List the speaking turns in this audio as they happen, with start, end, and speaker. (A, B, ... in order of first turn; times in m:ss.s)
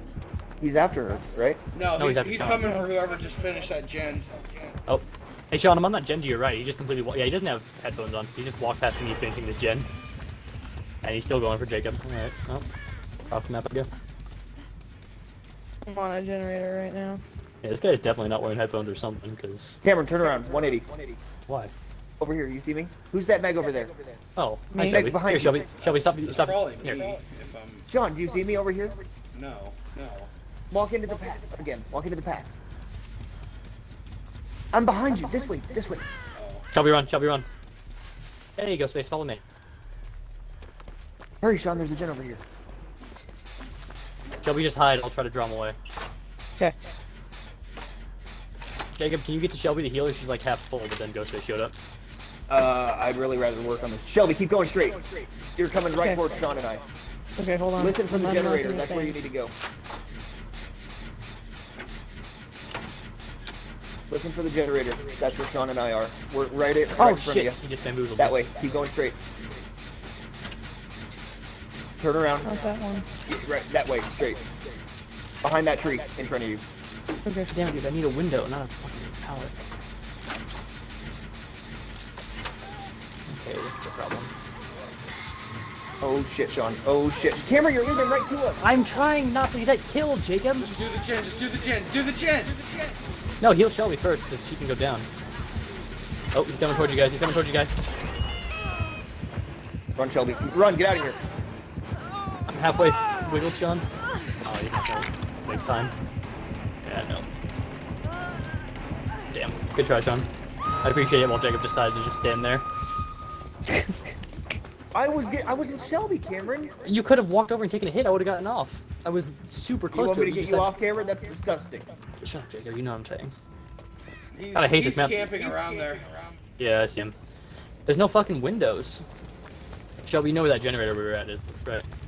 0:00.6-0:01.6 A
0:01.7-0:04.5 B
0:02.0-0:02.8 C
0:04.9-0:09.9 C
0:11.0-0:12.7 C
0:13.3-0:13.9 C
0:15.9-0:17.2 D
0:17.6-0:19.8 C
0:19.8-0:21.2 A
0:21.5-0:21.7 C
0:22.2-0:24.0 A
0:24.4-0:27.0 C
0:24.7-0:25.1 D
0:24.8-0:25.7 A
0:25.8-0:27.9 B
0:27.9-0:29.0 A
0:29.3-0:30.3 B
0:30.7-0:32.5 A
0:34.7-0:36.0 A
0:36.3-0:36.7 B
0:36.7-0:37.5 C
0:38.6-0:39.4 C
0:41.4-0:42.4 A
0:44.4-0:45.8 C
0:49.0-0:51.7 C
0:52.5-0:56.8 A
0:56.0-0:56.2 D
0:57.4-0:59.2 D
0:57.8-0:59.5 A
1:04.1-1:07.6 A
1:07.0-1:08.4 C
1:08.2-1:09.2 A
1:12.0-1:12.5 A
1:12.4-1:13.1 D
1:13.3-1:14.4 A
1:15.4-1:16.6 A
1:17.2-1:17.5 D
1:17.5-1:19.6 C
1:23.3-1:24.3 C
1:26.0-1:28.8 A
1:28.6-1:30.8 C
1:30.6-1:32.6 B
1:33.4-1:35.1 C
1:36.3-1:37.8 C
1:40.0-1:41.2 A
1:42.5-1:43.8 C
1:44.4-1:45.9 C
1:46.8-1:47.2 C
1:49.3-1:50.3 C
1:50.8-1:52.6 C
1:54.9-1:56.8 A
1:56.8-2:00.7 C
1:59.9-2:01.9 A
2:02.2-2:03.3 C
2:04.3-2:06.4 B
2:04.6-2:05.3 C
2:06.6-2:07.2 C
2:07.9-2:09.0 C
2:10.0-2:11.9 C